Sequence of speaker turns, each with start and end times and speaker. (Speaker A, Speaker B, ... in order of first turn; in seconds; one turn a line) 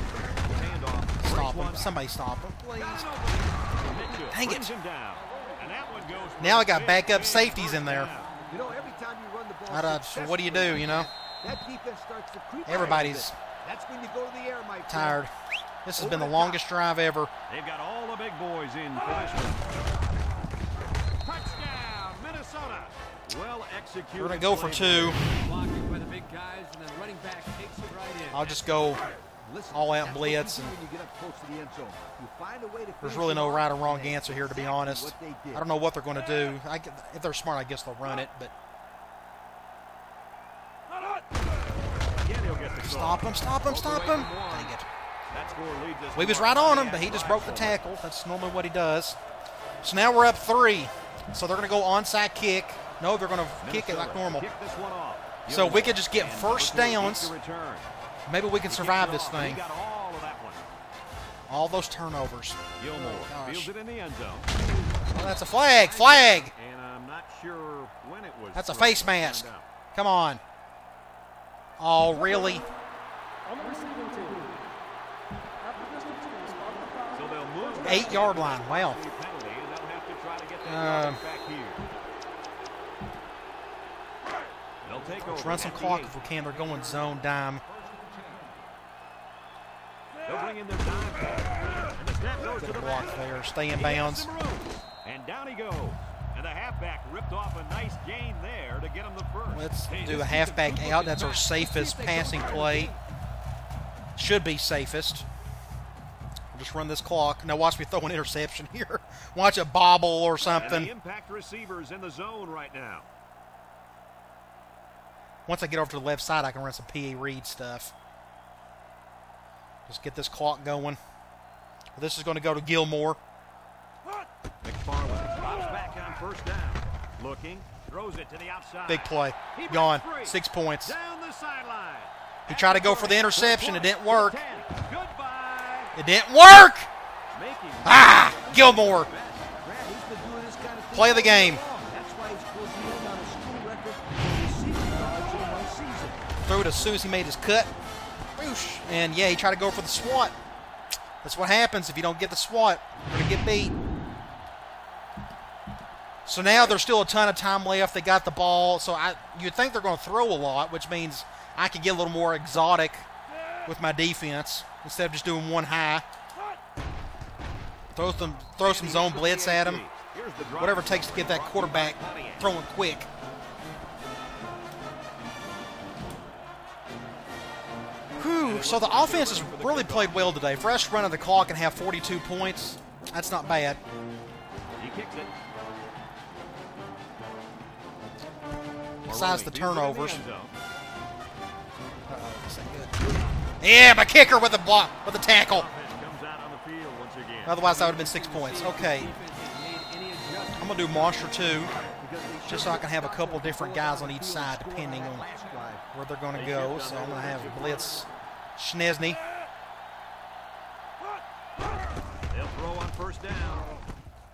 Speaker A: 0.5-1.9
Speaker B: 1.2-3.0
Speaker A: 2.6-8.3
Speaker B: 4.3-4.7
Speaker B: 6.4-8.1
Speaker C: 8.5-15.2
Speaker B: 9.7-11.1
Speaker B: 12.7-13.3
Speaker B: 14.9-15.3
Speaker B: 15.8-17.3
Speaker C: 16.0-16.6
Speaker A: 17.5-19.6
Speaker A: 21.2-25.2
Speaker B: 24.2-25.2
Speaker D: 25.1-28.6
Speaker B: 28.3-29.0
Speaker C: 29.4-35.7
Speaker B: 29.7-30.8
Speaker B: 33.0-38.5
Speaker A: 42.2-44.7
Speaker B: 42.8-44.9
Speaker A: 45.3-47.8
Speaker B: 46.1-49.2
Speaker B: 49.8-54.5
Speaker A: 53.6-57.9
Speaker B: 55.5-57.3
Speaker B: 58.3-59.6
Speaker A: 58.7-60.6
Speaker B: 61.5-63.7
Speaker A: 62.8-64.5
Speaker B: 65.1-66.5
Speaker A: 65.2-69.7
Speaker B: 68.5-70.4
Speaker B: 71.8-72.7
Speaker A: 77.1-81.8
Speaker B: 77.8-79.0
Speaker B: 80.7-81.2
Speaker A: 84.8-86.2
Speaker B: 85.2-87.6
Speaker A: 90.2-100.0
Speaker B: 92.6-94.3
Speaker B: 99.5-102.9
Speaker D: 99.9-103.0
Speaker B: 104.2-105.3
Speaker B: 106.5-110.9
Speaker A: 110.5-113.1
Speaker B: 115.5-117.9
Speaker B: 119.9-121.0
Speaker B: 122.0-123.2
Speaker A: 124.6-135.9
Speaker B: 128.9-130.9
Speaker B: 132.5-134.4
Speaker B: 135.9-136.9
Speaker A: 137.3-139.5
Speaker B: 137.8-139.1
Speaker C: 139.6-146.2
Speaker B: 140.9-141.6
Speaker B: 146.4-147.7
Speaker B: 148.4-150.3
Speaker B: 151.2-153.8
Speaker B: 156.3-163.1
Speaker B: 163.7-166.1
Speaker B: 167.9-169.8
Speaker A: 168.6-172.5
Speaker B: 170.6-173.1
Speaker B: 178.2-183.8
Speaker A: 178.4-180.3
Speaker A: 184.8-185.3
Speaker B: 189.1-190.2
Speaker A: 189.1-190.5
Speaker B: 192.1-193.0
Speaker B: 193.6-195.7
Speaker A: 195.3-197.6
Speaker B: 197.4-199.1
Speaker D: 197.6-201.5
Speaker B: 200.6-201.7
Speaker C: 201.9-205.8
Speaker B: 202.5-205.2
Speaker B: 205.9-209.2
Speaker A: 206.3-208.1
Speaker A: 212.3-213.8